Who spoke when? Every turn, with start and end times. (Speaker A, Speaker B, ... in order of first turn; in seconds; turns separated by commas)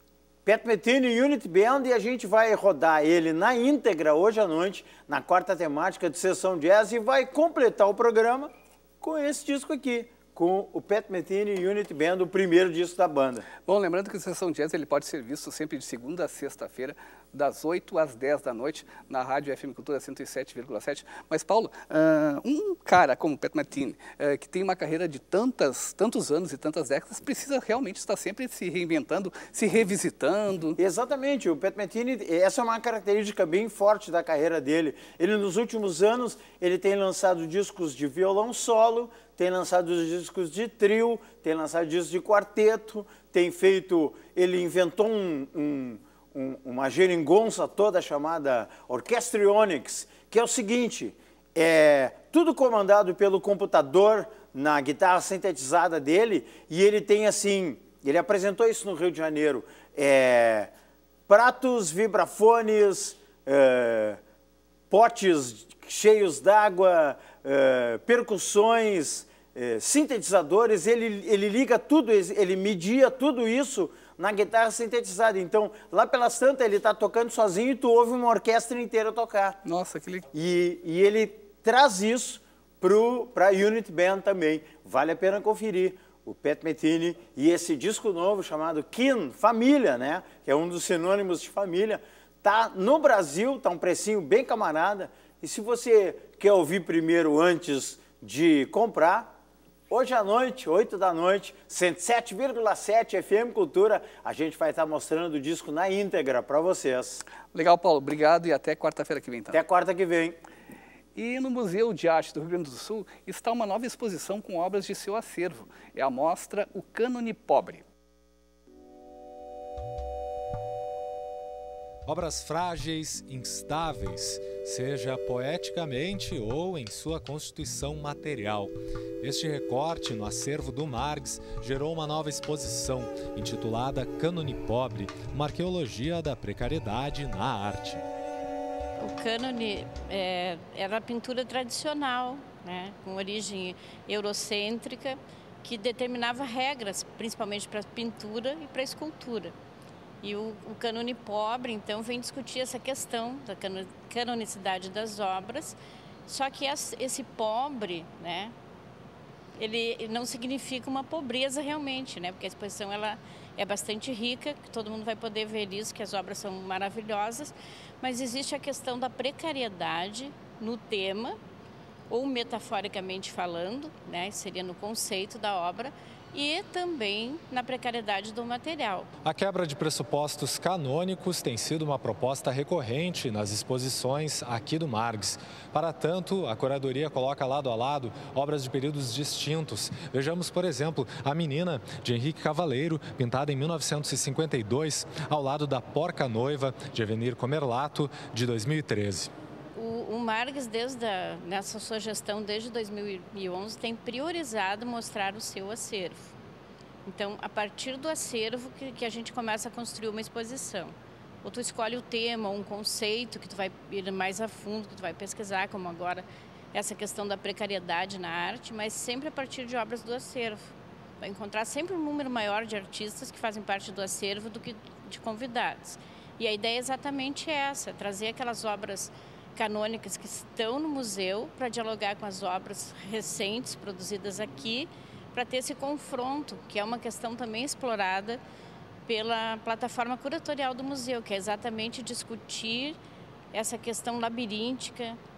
Speaker A: 0.4-13.4, Speaker B: 13.6-30.8, Speaker A: 30.8-60.7, Speaker A: 61.3-64.2, Speaker A: 64.9-79.6, Speaker B: 79.6-80.2, Speaker A: 80.3-99.3, Speaker A: 99.9-107.2, Speaker B: 107.5-109.6, Speaker A: 109.5-110.4, Speaker B: 111.1-117.9, Speaker C: 122.0-138.0, Speaker D: 139.0-149.5, Speaker D: 150.2-158.5, Speaker D: 159.6-171.3, Speaker D: 172.1-179.1, Speaker C: 179.2-199.3, Speaker D: 199.7-206.3, Speaker D: 207.0-238.4, Speaker D: 239.1-243.0, Speaker D: 243.5-245.2